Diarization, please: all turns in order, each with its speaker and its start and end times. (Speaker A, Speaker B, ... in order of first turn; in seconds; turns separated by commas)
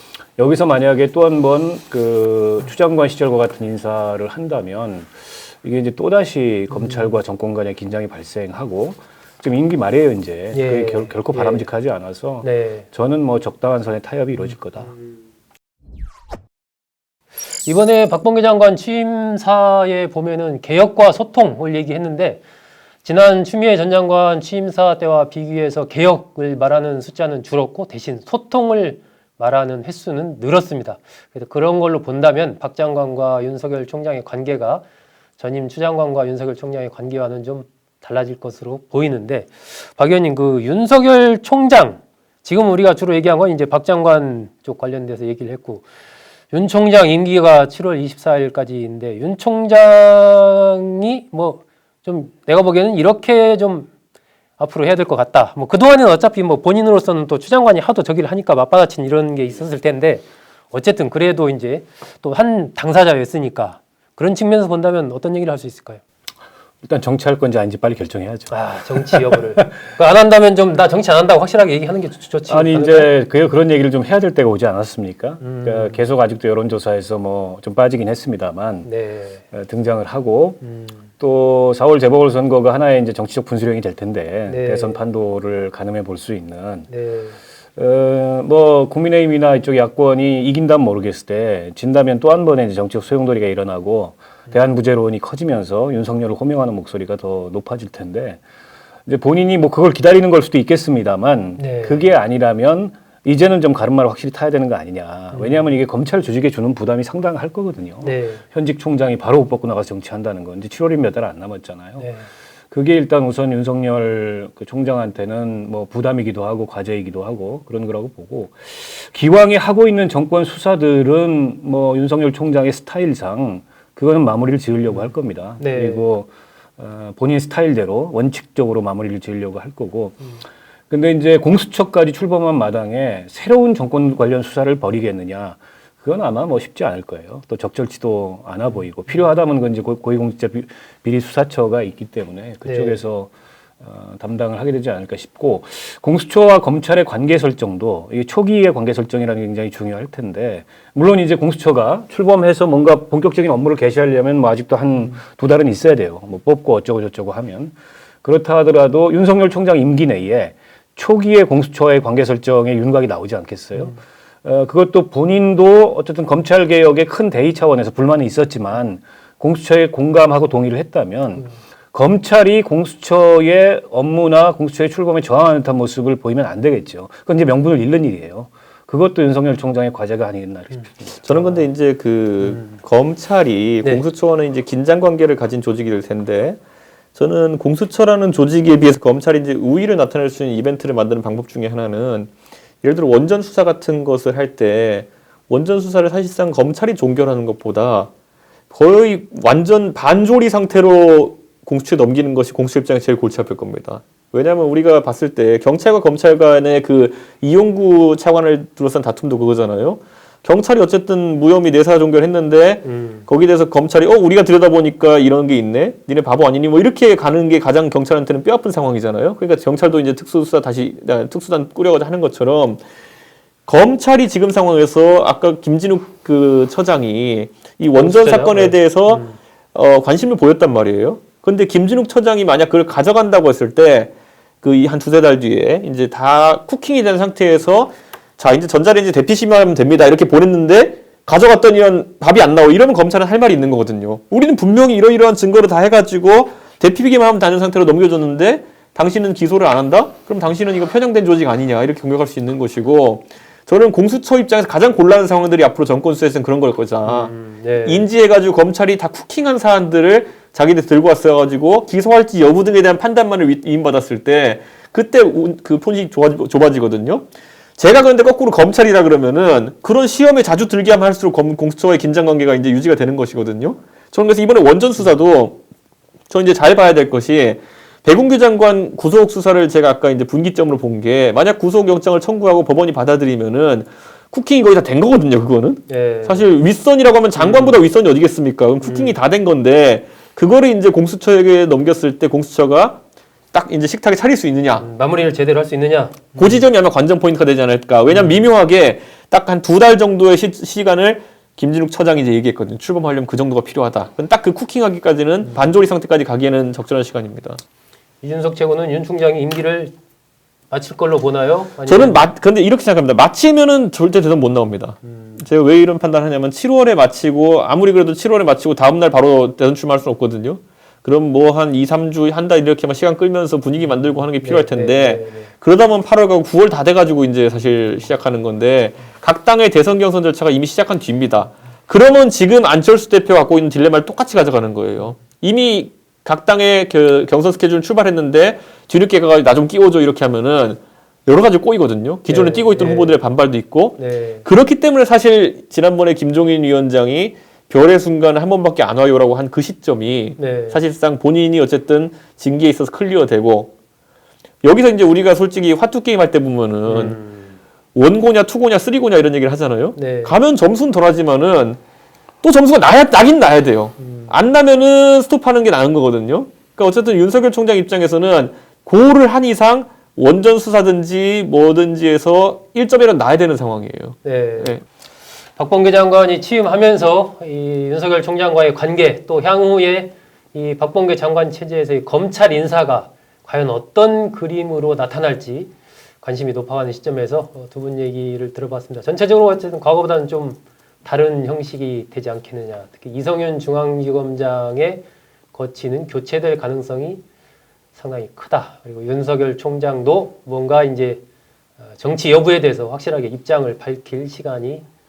Speaker A: 0.4-14.9, Speaker B: 6.7-7.2, Speaker B: 10.5-11.7, Speaker B: 12.4-12.8, Speaker B: 14.5-15.2, Speaker B: 17.6-22.4, Speaker B: 23.0-34.8, Speaker B: 35.4-45.9, Speaker B: 46.5-53.9, Speaker B: 54.6-66.0, Speaker A: 66.8-69.7, Speaker B: 68.5-73.1, Speaker A: 72.5-78.9, Speaker B: 75.4-76.0, Speaker B: 78.8-79.4, Speaker A: 79.5-80.6, Speaker B: 80.6-81.0, Speaker A: 81.2-86.9, Speaker B: 84.5-85.0, Speaker B: 86.9-87.4, Speaker A: 87.8-98.4, Speaker A: 99.1-112.1, Speaker B: 101.6-102.1, Speaker B: 105.3-105.7, Speaker B: 108.0-108.4, Speaker B: 112.0-112.3, Speaker A: 112.7-130.3, Speaker B: 125.6-126.1, Speaker A: 130.9-181.5, Speaker B: 142.7-143.0, Speaker C: 181.2-186.6, Speaker B: 182.4-182.7, Speaker C: 187.2-192.3, Speaker C: 192.8-198.1, Speaker C: 198.7-222.8, Speaker B: 212.8-213.3, Speaker C: 223.7-257.3, Speaker B: 228.0-229.4, Speaker B: 257.1-258.1, Speaker C: 257.8-275.6, Speaker C: 276.3-293.0, Speaker B: 285.9-286.5, Speaker B: 287.4-287.8, Speaker B: 288.8-289.2, Speaker C: 293.5-294.9, Speaker B: 294.8-296.6, Speaker C: 296.4-307.6, Speaker B: 298.1-298.5, Speaker B: 308.2-309.9, Speaker B: 310.7-312.3, Speaker C: 311.9-353.7, Speaker B: 315.1-315.4, Speaker B: 324.4-325.5, Speaker B: 342.3-343.2, Speaker B: 344.0-344.5, Speaker B: 350.4-350.8, Speaker C: 354.6-357.2, Speaker B: 356.9-357.6, Speaker C: 357.9-361.8, Speaker B: 360.0-360.4, Speaker C: 362.4-374.8, Speaker B: 364.0-364.3, Speaker B: 374.2-374.8, Speaker B: 375.6-397.2, Speaker B: 397.9-401.2, Speaker B: 401.9-404.9